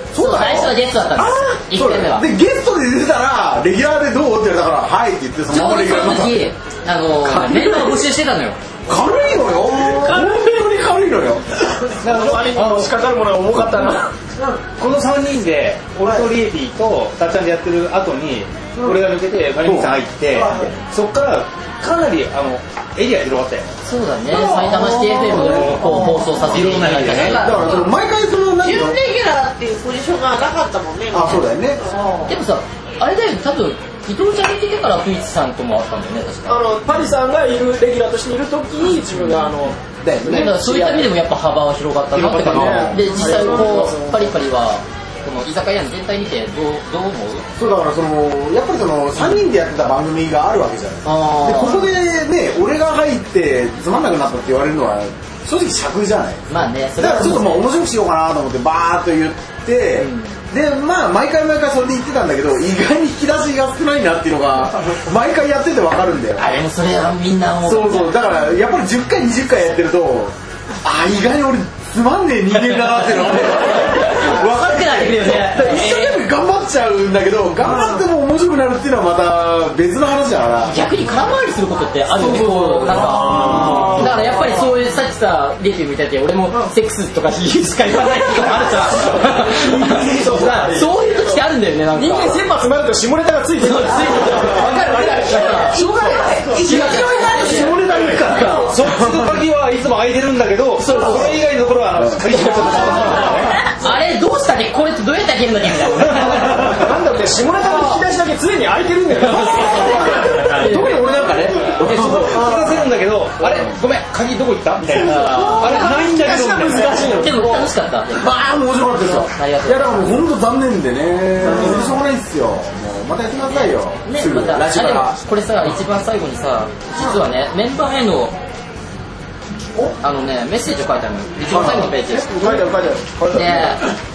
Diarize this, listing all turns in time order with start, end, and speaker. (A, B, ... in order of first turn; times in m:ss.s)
0:00.1-0:00.7 A
0:00.2-0:02.3 B
0:01.7-0:06.4 A
0:05.5-0:08.6 B
0:07.4-0:07.9 C
0:08.9-0:11.6 A
0:09.7-0:10.7 C
0:11.8-0:14.1 C
0:12.0-0:13.0 D
0:14.8-0:23.8 D
0:19.6-0:20.7 A
0:23.8-0:27.9 B
0:24.3-0:26.3 A
0:24.3-0:27.7 D
0:27.0-0:28.0 E
0:27.4-0:29.0 A
0:28.6-0:32.3 E
0:31.1-0:31.8 A
0:32.3-0:36.8 B
0:36.5-0:41.1 C
0:40.0-0:40.5 A
0:40.3-0:47.4 B
0:42.1-0:43.1 D
0:42.5-0:44.3 C
0:47.6-0:56.4 A
0:51.0-0:51.9 B
0:56.5-0:57.7 B
0:57.0-1:06.5 A
1:00.0-1:00.3 B
1:06.4-1:08.3 B
1:07.6-1:20.8 A
1:12.8-1:16.2 B
1:20.7-1:32.4 B
1:22.1-1:24.1 A
1:23.1-1:24.7 C
1:28.5-1:38.7 C
1:33.6-1:35.8 B
1:35.8-1:39.2 A
1:36.6-1:37.8 B
1:38.3-1:38.6 B
1:38.6-1:43.6 D
1:40.8-1:41.3 B
1:42.0-1:42.2 A
1:43.8-1:46.8 B
1:46.3-1:46.7 D
1:46.7-1:50.4 C
1:49.3-1:51.3 B
1:49.7-1:52.8 A
1:51.7-1:57.0 D
1:52.3-1:52.7 C
1:54.9-1:57.7 C
1:55.0-1:55.9 B
1:57.2-1:58.3 B
1:58.1-2:05.2 A
1:59.3-2:00.2 B
2:01.4-2:02.0 C
2:03.4-2:08.3 B
2:10.0-2:12.6 B
2:11.5-2:12.6 A
2:11.6-2:13.8 C
2:13.3-2:13.8 B